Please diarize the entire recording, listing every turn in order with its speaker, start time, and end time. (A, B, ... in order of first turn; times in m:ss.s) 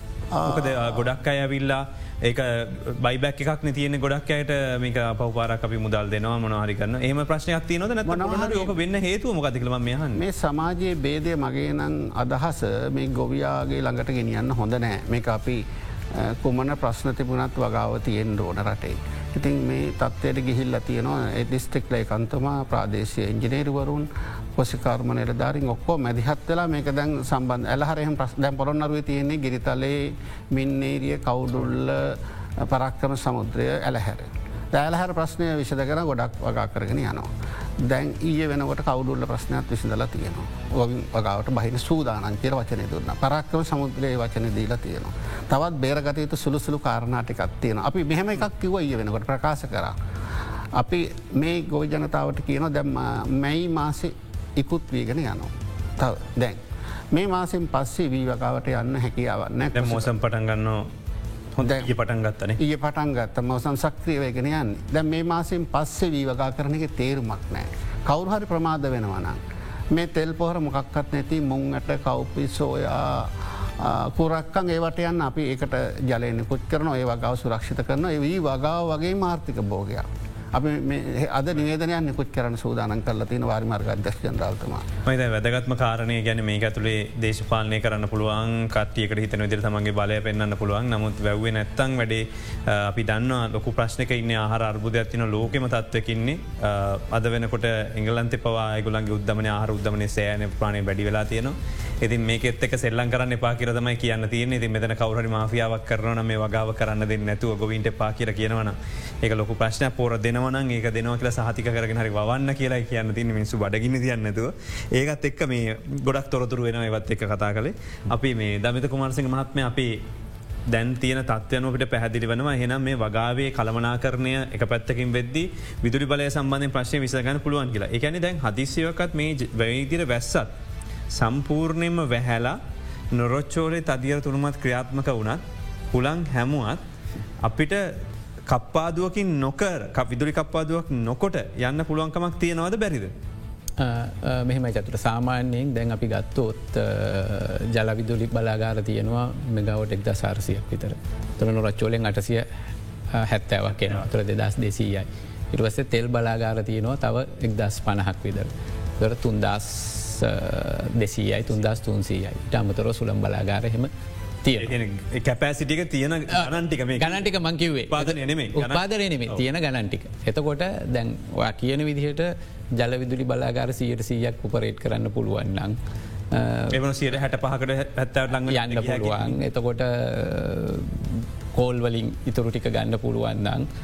0:00.3-0:01.1 A
0:00.4-0:10.2 B
0:08.1-0:08.8 A
0:10.2-0:50.0 A
0:50.7-0:56.6 A
0:57.1-1:00.1 A
0:59.8-1:00.9 B
1:01.6-1:02.6 B
1:01.6-1:01.9 A
1:02.6-1:09.4 A
1:09.9-1:24.9 A
1:25.1-2:00.0 B
2:00.7-2:10.5 B
2:11.1-2:12.6 B
2:13.1-2:15.4 B
2:15.9-2:16.8 B
2:17.4-2:23.1 B
2:23.8-2:32.5 C
2:33.1-2:43.9 C
2:44.4-2:44.7 C
2:44.6-2:47.2 B
2:46.3-2:55.8 C
2:47.9-2:49.4 B
2:56.3-2:56.8 C
2:56.7-2:59.4 B
2:58.4-3:03.7 C